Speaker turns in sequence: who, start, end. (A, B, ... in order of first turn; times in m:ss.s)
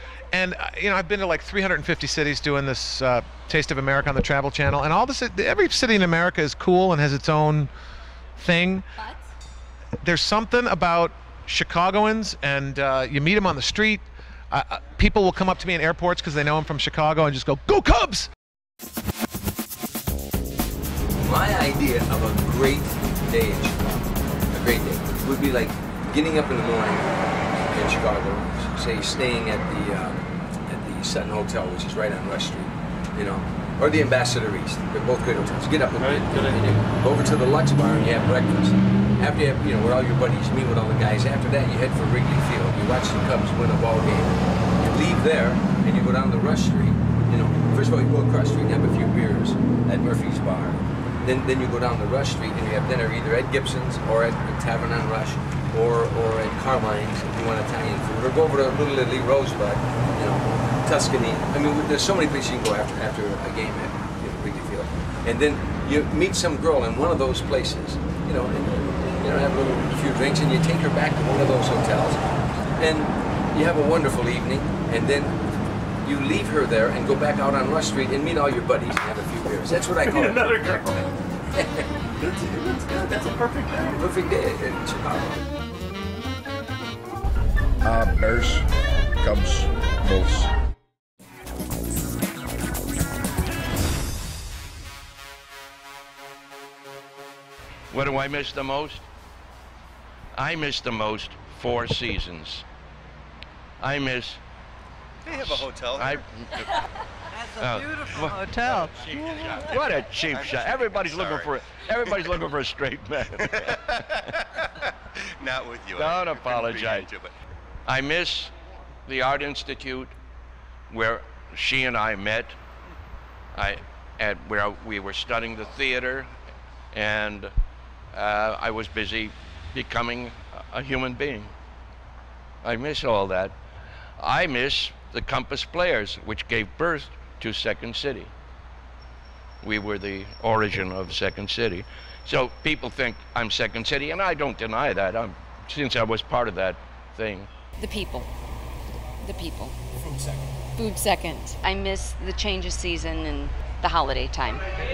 0:00.3-0:07.7 A
0:08.4-0:08.8 A
0:10.0-0:18.3 A
0:21.2-0:27.1 B
0:27.7-1:12.2 B
0:36.0-0:36.6 C
1:12.8-1:15.3 B
1:16.0-1:21.9 B
1:20.1-1:20.7 C
1:22.3-1:23.8 C
1:23.9-1:25.4 B
1:27.8-1:28.7 D
1:29.2-1:30.5 D
1:37.9-1:39.0 E
1:40.3-1:42.6 E
1:43.8-1:44.4 E
1:45.2-1:46.6 F
1:45.3-1:46.6 E
1:47.5-1:53.8 E
1:48.9-1:52.4 F
1:53.4-1:54.9 F
1:55.4-1:57.3 F
1:56.0-1:57.1 E
1:57.8-1:58.5 E
1:59.1-2:00.1 E
2:00.9-2:02.6 E
2:03.5-2:06.3 E
2:06.9-2:07.5 E
2:08.1-2:11.5 E
2:12.6-2:13.6 E
2:14.2-2:18.3 E
2:19.6-2:27.5 E
2:27.8-2:28.3 G
2:29.2-2:29.7 G
2:30.8-2:34.6 G